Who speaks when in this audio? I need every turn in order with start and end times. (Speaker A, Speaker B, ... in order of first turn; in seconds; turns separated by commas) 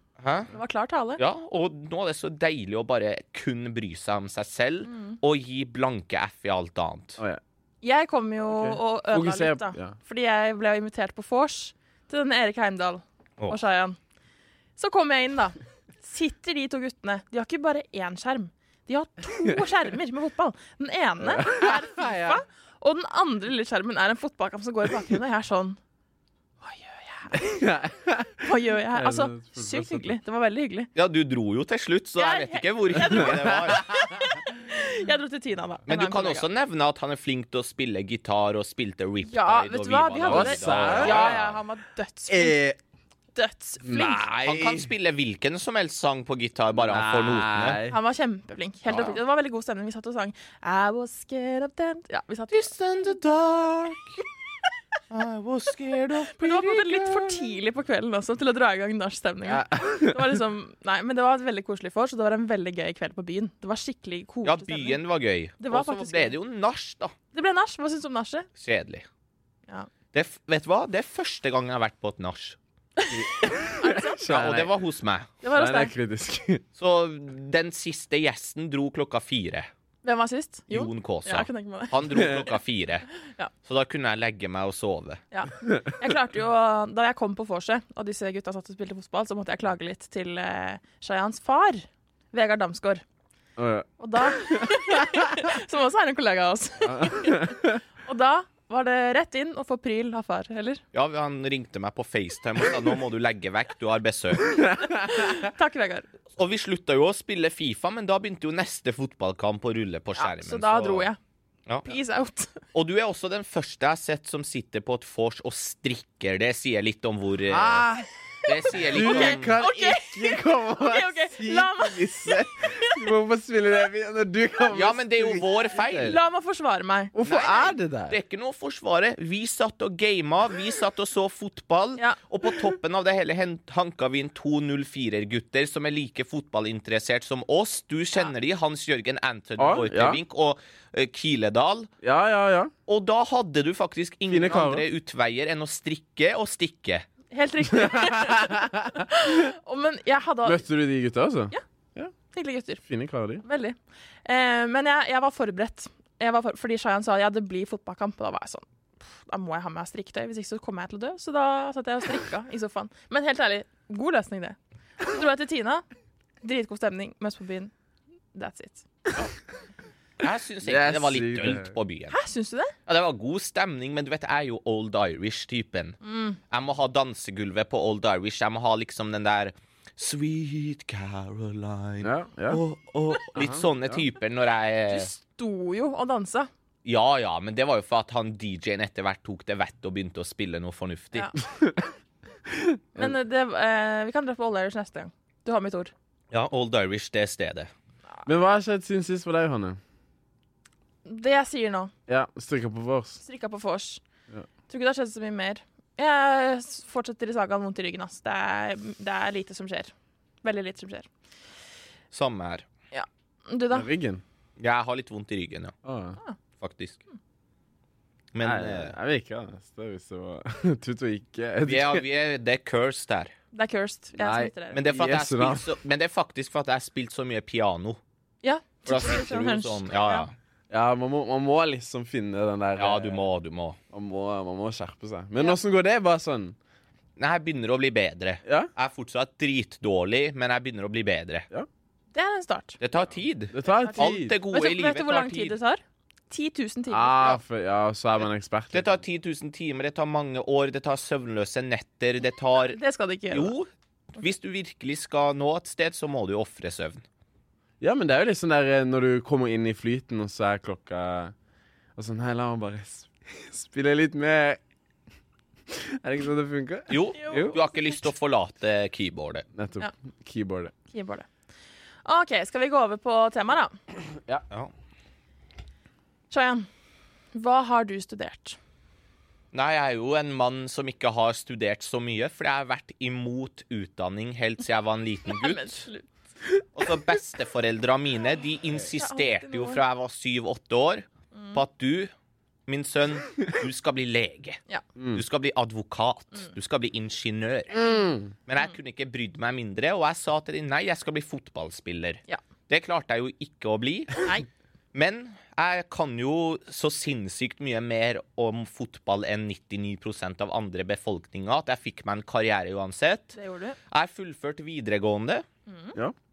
Speaker A: 0.2-0.5, Speaker B: 0.5-1.2, Speaker A: 1.2-7.2, Speaker B: 4.8-5.2, Speaker B: 7.8-14.0, Speaker C: 8.5-9.9, Speaker B: 14.8-25.8, Speaker C: 21.2-22.4, Speaker B: 26.6-27.5, Speaker C: 27.3-30.1, Speaker B: 28.4-30.9, Speaker A: 30.9-33.9, Speaker B: 32.2-36.5, Speaker C: 33.1-34.3, Speaker A: 35.9-41.6, Speaker B: 39.2-42.6, Speaker C: 40.2-41.5, Speaker C: 42.3-42.8, Speaker B: 43.3-44.3, Speaker C: 43.8-44.9, Speaker A: 44.3-47.8, Speaker C: 46.7-48.0, Speaker B: 47.9-52.7, Speaker A: 48.9-49.2, Speaker A: 52.5-54.2, Speaker A: 55.1-57.5, Speaker B: 56.3-65.0, Speaker C: 59.4-60.4, Speaker A: 64.4-67.1, Speaker B: 65.6-66.3, Speaker B: 67.3-68.5, Speaker A: 68.6-69.0, Speaker A: 70.1-72.6, Speaker B: 73.0-74.2, Speaker C: 73.1-74.7, Speaker A: 74.2-75.3, Speaker B: 75.4-75.9, Speaker C: 75.5-76.6, Speaker A: 76.8-79.7, Speaker B: 80.0-82.3, Speaker A: 80.7-83.1, Speaker C: 82.1-82.4, Speaker A: 83.6-85.2, Speaker B: 85.3-93.0, Speaker C: 85.6-85.9, Speaker C: 93.6-93.9, Speaker B: 94.0-100.8, Speaker C: 94.4-94.9, Speaker C: 96.8-97.8, Speaker A: 100.9-104.6, Speaker C: 104.5-105.1, Speaker B: 104.9-106.0, Speaker A: 106.3-111.1, Speaker B: 110.2-111.2, Speaker A: 111.7-112.0, Speaker B: 111.8-112.6, Speaker A: 112.7-117.8, Speaker C: 117.5-118.1, Speaker A: 118.4-119.5, Speaker B: 118.7-123.0, Speaker C: 118.8-126.2, Speaker A: 124.7-126.2, Speaker B: 125.9-127.1, Speaker C: 127.1-128.2, Speaker A: 127.2-141.9, Speaker C: 139.6-140.2, Speaker C: 142.0-142.7, Speaker A: 142.9-147.1, Speaker C: 144.3-144.8, Speaker B: 147.3-150.6, Speaker C: 147.8-149.3, Speaker C: 150.4-152.1, Speaker B: 152.3-152.8, Speaker C: 152.8-153.4, Speaker B: 153.4-165.8, Speaker B: 166.4-167.7, Speaker B: 168.3-168.8, Speaker A: 170.2-172.2, Speaker C: 170.6-171.7, Speaker B: 172.1-172.7, Speaker A: 172.8-176.0, Speaker B: 176.0-176.4, Speaker A: 176.5-185.1, Speaker C: 182.0-182.6, Speaker C: 183.3-184.0, Speaker B: 184.9-186.5, Speaker A: 186.8-191.3, Speaker C: 191.5-191.9, Speaker C: 192.5-193.1, Speaker B: 192.9-195.9, Speaker A: 196.3-197.7, Speaker C: 198.2-199.8, Speaker B: 201.1-201.9, Speaker C: 202.1-203.2, Speaker B: 203.2-204.0, Speaker B: 204.7-209.9, Speaker B: 210.4-211.1, Speaker A: 212.1-212.6, Speaker B: 212.9-213.9, Speaker C: 213.7-214.2, Speaker A: 214.6-215.7, Speaker C: 215.8-216.2, Speaker A: 216.6-217.0, Speaker A: 218.3-218.9, Speaker C: 218.4-222.0, Speaker A: 221.6-223.3, Speaker B: 223.5-224.8, Speaker C: 224.2-225.7, Speaker A: 224.7-228.0, Speaker B: 228.4-230.2, Speaker A: 228.8-230.3, Speaker C: 230.7-233.2, Speaker A: 232.8-233.8, Speaker C: 233.9-236.6, Speaker A: 237.2-241.4, Speaker B: 242.1-242.8, Speaker A: 242.8-245.6, Speaker C: 243.5-244.3, Speaker B: 243.8-247.1, Speaker C: 246.9-249.0, Speaker A: 248.7-252.8, Speaker B: 252.7-253.5, Speaker A: 253.3-257.0, Speaker C: 257.8-261.3, Speaker C: 261.9-264.6, Speaker C: 265.7-267.6, Speaker A: 266.9-269.5, Speaker B: 267.2-268.0, Speaker C: 269.5-270.7, Speaker B: 270.9-271.2, Speaker B: 272.0-273.8, Speaker C: 274.1-274.4, Speaker B: 276.3-276.7, Speaker B: 277.3-278.6, Speaker A: 279.5-285.8, Speaker B: 285.3-286.1, Speaker A: 286.8-292.1, Speaker B: 288.9-289.8, Speaker B: 291.3-291.6, Speaker A: 292.7-294.6, Speaker C: 295.0-295.2, Speaker A: 295.1-297.9, Speaker C: 297.7-298.3, Speaker A: 298.4-304.3, Speaker A: 304.9-313.4, Speaker B: 313.3-313.8, Speaker A: 313.9-315.4, Speaker B: 315.7-315.9